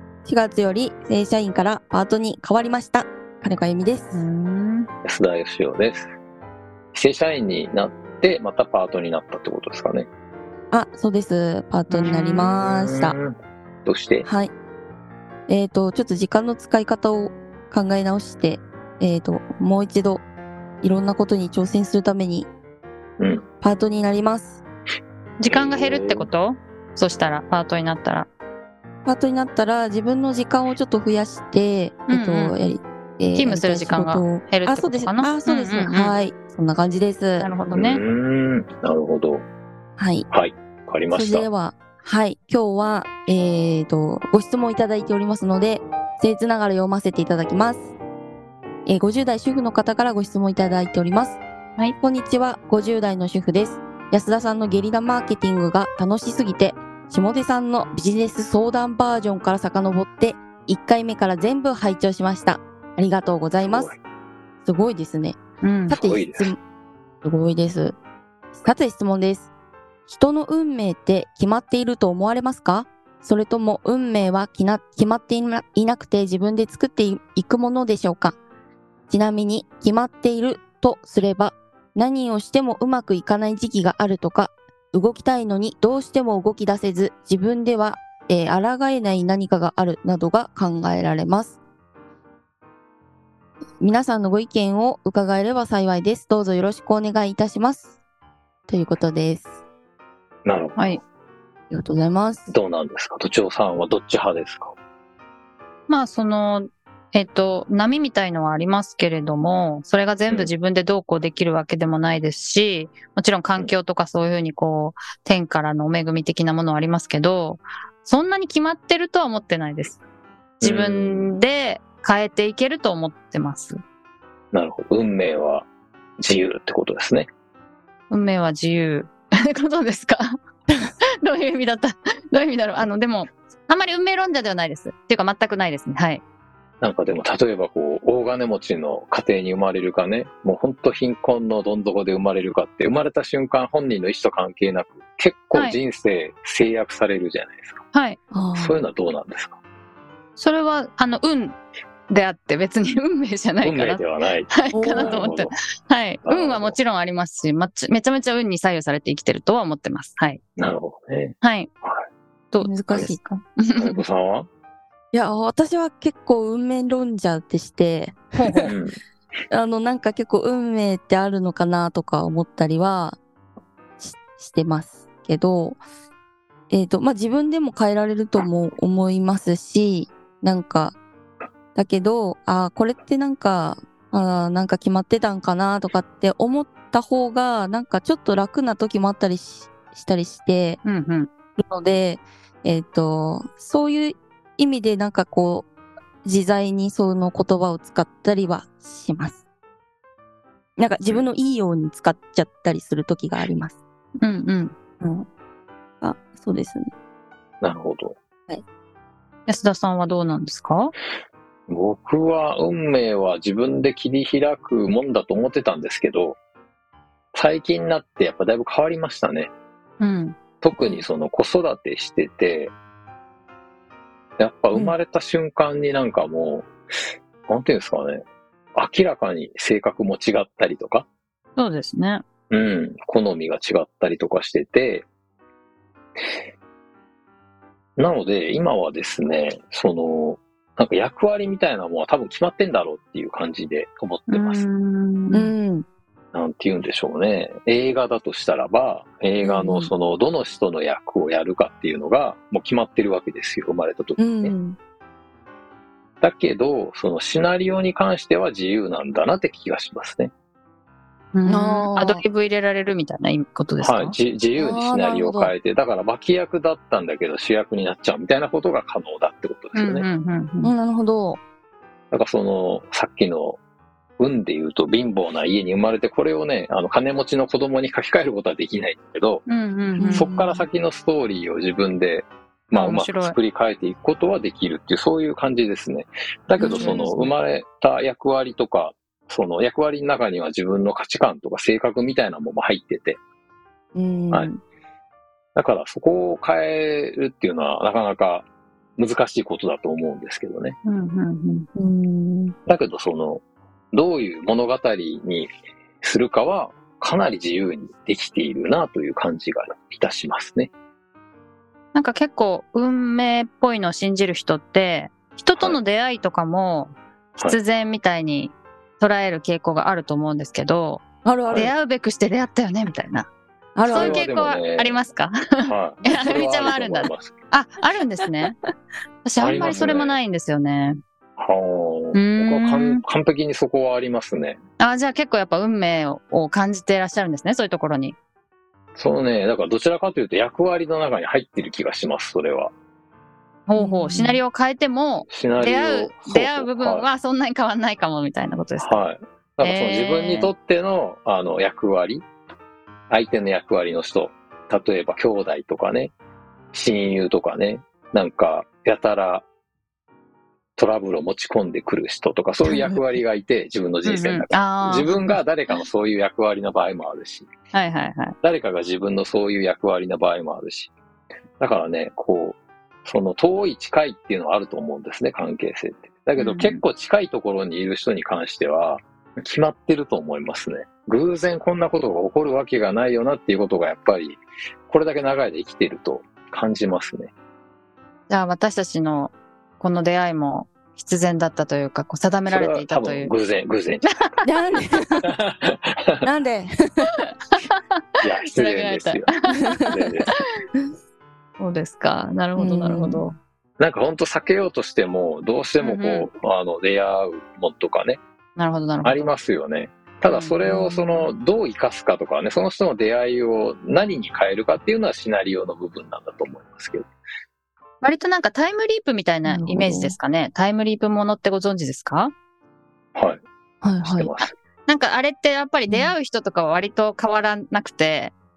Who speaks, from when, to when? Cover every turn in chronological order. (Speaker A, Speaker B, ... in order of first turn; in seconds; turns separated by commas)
Speaker A: 0.2-4.2, Speaker B: 4.1-4.9, Speaker C: 5.0-6.1, Speaker C: 6.9-10.1, Speaker A: 10.7-13.2, Speaker B: 11.9-12.5, Speaker C: 12.4-14.2, Speaker A: 14.2-14.5, Speaker A: 15.5-20.2, Speaker A: 20.8-22.5, Speaker C: 23.2-23.4, Speaker A: 23.6-24.6, Speaker B: 25.4-28.3, Speaker C: 25.4-26.3, Speaker A: 29.0-37.5, Speaker B: 32.1-32.5, Speaker B: 33.3-36.1, Speaker B: 37.4-38.0, Speaker C: 37.7-39.4, Speaker A: 40.0-40.3, Speaker C: 40.3-41.5, Speaker A: 41.1-47.9, Speaker A: 48.9-51.4, Speaker A: 52.0-63.9, Speaker C: 63.6-64.0, Speaker A: 64.6-66.6, Speaker B: 65.6-66.0, Speaker C: 65.9-66.5, Speaker A: 67.2-68.0, Speaker A: 68.5-69.5, Speaker A: 70.1-78.3, Speaker A: 79.1-91.6, Speaker A: 93.8-97.9, Speaker A: 98.7-99.5, Speaker C: 100.4-101.0, Speaker A: 101.7-102.5, Speaker C: 102.5-104.7, Speaker B: 105.9-120.0, Speaker B: 120.6-123.8, Speaker C: 120.6-121.4, Speaker C: 124.5-125.7, Speaker C: 126.2-127.3, Speaker B: 128.1-130.3, Speaker B: 131.2-136.2, Speaker C: 136.8-147.8, Speaker B: 147.9-148.2, Speaker A: 148.3-148.8, Speaker C: 148.5-149.6, Speaker B: 150.3-151.6, Speaker B: 152.1-160.4, Speaker C: 153.6-155.5, Speaker A: 154.7-155.2, Speaker C: 156.2-156.8, Speaker C: 160.6-162.0, Speaker B: 161.4-161.7, Speaker B: 162.5-162.8, Speaker A: 162.6-163.4, Speaker C: 162.9-163.2, Speaker B: 163.6-164.0, Speaker C: 163.8-164.5, Speaker A: 165.1-168.7, Speaker B: 168.3-168.7, Speaker C: 168.7-168.9, Speaker A: 169.5-173.2, Speaker A: 174.0-175.8, Speaker A: 176.7-181.0, Speaker A: 181.7-190.8, Speaker B: 190.8-191.3, Speaker A: 191.6-195.7, Speaker A: 196.2-199.4, Speaker A: 200.8-203.8, Speaker B: 204.2-204.7, Speaker A: 205.0-205.3, Speaker A: 206.0-206.9, Speaker C: 207.6-208.2, Speaker B: 209.5-210.9, Speaker C: 211.7-216.4, Speaker C: 217.3-219.5, Speaker B: 220.0-220.4, Speaker C: 220.6-222.7, Speaker C: 224.4-226.8, Speaker C: 227.5-228.2, Speaker C: 228.8-231.1, Speaker B: 231.6-232.2, Speaker C: 232.5-235.1, Speaker C: 238.0-244.7, Speaker B: 244.3-245.5, Speaker A: 245.3-245.8, Speaker C: 246.3-254.5, Speaker A: 249.4-249.9, Speaker A: 254.2-254.8, Speaker C: 256.2-260.3, Speaker B: 261.3-264.1, Speaker A: 261.4-262.2, Speaker C: 263.8-270.1, Speaker A: 264.6-265.5, Speaker B: 269.7-270.7, Speaker A: 270.6-271.4, Speaker C: 272.1-273.6, Speaker C: 274.2-279.4, Speaker B: 279.4-280.3, Speaker A: 280.0-280.7, Speaker C: 280.1-293.2, Speaker B: 282.7-283.4, Speaker A: 286.6-287.3, Speaker B: 286.7-287.1, Speaker A: 293.9-294.6, Speaker C: 295.6-300.8, Speaker B: 300.8-301.7, Speaker A: 301.8-302.5, Speaker C: 302.7-303.4, Speaker C: 303.9-305.5, Speaker C: 306.0-310.7, Speaker B: 311.9-321.0, Speaker A: 321.2-321.7, Speaker B: 321.5-323.3, Speaker A: 323.7-324.2, Speaker C: 323.8-325.0, Speaker B: 323.9-328.5, Speaker C: 325.6-327.3, Speaker B: 329.2-331.0, Speaker C: 329.4-330.2, Speaker A: 329.6-329.9, Speaker C: 331.4-334.6, Speaker B: 332.1-333.0, Speaker B: 334.8-338.1, Speaker C: 338.9-342.7, Speaker B: 343.7-349.0, Speaker A: 343.8-344.4, Speaker C: 345.3-347.1, Speaker C: 348.8-352.2, Speaker B: 349.6-350.5, Speaker C: 353.1-356.1, Speaker C: 356.7-359.4, Speaker C: 360.8-367.5, Speaker A: 362.7-363.0, Speaker B: 364.0-365.4, Speaker B: 367.7-368.3, Speaker C: 368.4-370.9, Speaker C: 371.6-387.3, Speaker B: 376.4-376.8, Speaker B: 388.3-393.3, Speaker C: 392.4-394.1, Speaker A: 394.4-395.3, Speaker C: 395.2-396.2, Speaker A: 396.2-397.1, Speaker B: 397.5-397.8, Speaker C: 398.2-399.3, Speaker B: 398.4-400.3, Speaker A: 399.6-399.9, Speaker C: 399.9-400.3, Speaker B: 401.6-403.3, Speaker A: 402.6-403.2, Speaker C: 403.8-408.2, Speaker B: 405.8-406.3, Speaker B: 408.6-409.3, Speaker C: 409.0-417.1, Speaker B: 410.2-411.2, Speaker B: 418.0-422.3, Speaker A: 419.4-420.2, Speaker C: 423.1-423.4, Speaker A: 423.8-424.3, Speaker C: 424.0-424.5, Speaker B: 424.4-428.3, Speaker A: 425.9-426.1